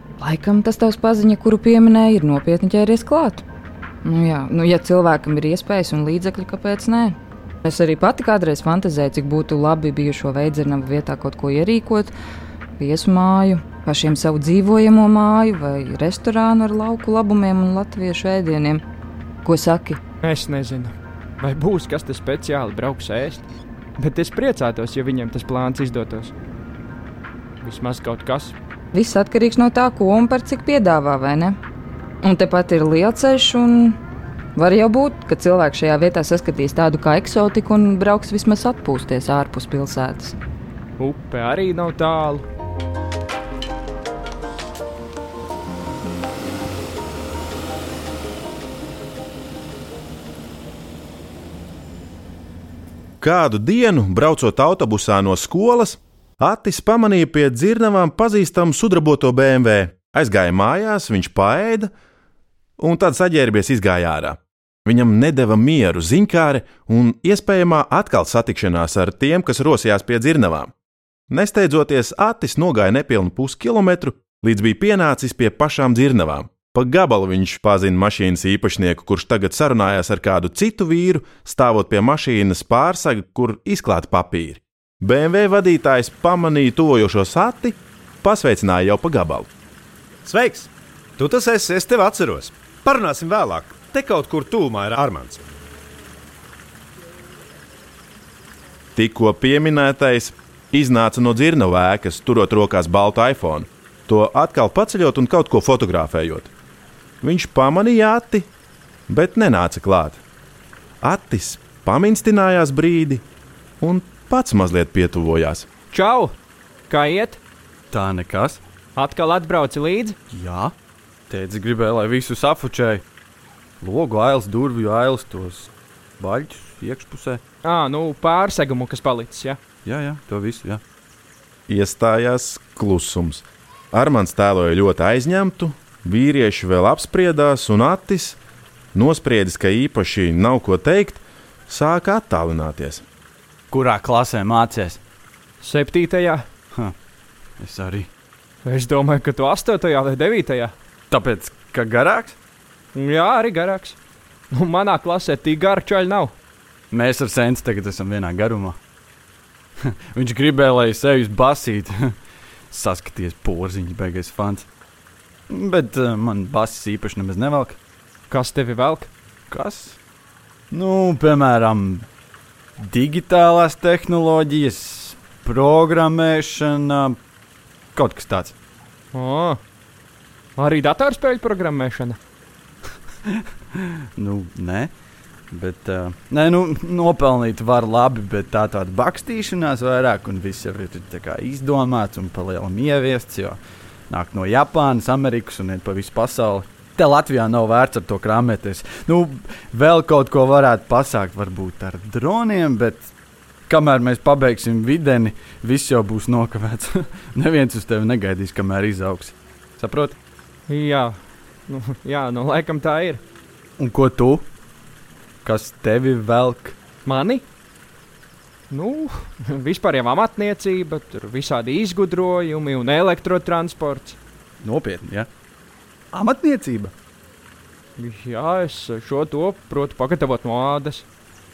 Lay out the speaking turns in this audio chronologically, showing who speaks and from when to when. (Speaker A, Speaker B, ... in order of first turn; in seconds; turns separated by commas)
Speaker A: 0.2-3.4, Speaker A: 4.0-12.1, Speaker A: 12.8-18.8, Speaker A: 19.4-20.0, Speaker B: 20.2-23.4, Speaker B: 24.0-26.3, Speaker B: 27.6-28.6, Speaker A: 28.9-31.6, Speaker A: 32.2-34.0, Speaker A: 34.6-40.4, Speaker B: 41.0-42.5, Speaker C: 53.2-61.9, Speaker C: 62.8-70.7, Speaker C: 71.3-89.5, Speaker D: 90.2-95.5, Speaker C: 99.0-106.5, Speaker C: 107.2-108.5, Speaker C: 109.1-110.2, Speaker C: 111.0-113.2, Speaker C: 113.8-115.7, Speaker B: 115.9-116.3, Speaker B: 116.9-117.4, Speaker E: 117.9-118.6, Speaker B: 119.0-120.2, Speaker E: 120.3-120.7, Speaker E: 121.3-123.0, Speaker E: 123.8-127.4, Speaker B: 127.6-129.6, Speaker E: 129.8-130.8, Speaker C: 131.7-138.4, Speaker C: 138.9-143.1, Speaker E: 143.7-145.0, Speaker B: 145.6-146.5, Speaker E: 147.6-148.1, Speaker B: 148.6-150.7, Speaker E: 151.1-152.4, Speaker B: 152.9-154.0, Speaker B: 154.5-156.3, Speaker E: 156.9-158.8, Speaker E: 159.9-162.2, Speaker E: 162.7-164.7, Speaker E: 165.5-167.8, Speaker B: 168.3-169.1, Speaker E: 169.5-170.0, Speaker E: 170.7-172.1, Speaker E: 172.8-177.2, Speaker E: 177.9-178.6, Speaker B: 179.1-179.6, Speaker B: 180.6-182.2, Speaker E: 183.4-184.9, Speaker E: 185.5-203.1, Speaker E: 203.7-210.2, Speaker B: 210.7-211.2, Speaker B: 211.7-213.2, Speaker E: 213.8-214.4, Speaker E: 215.4-216.8, Speaker B: 217.1-217.4, Speaker B: 218.7-224.2, Speaker E: 224.6-225.3, Speaker E: 226.1-226.9, Speaker B: 228.0-231.1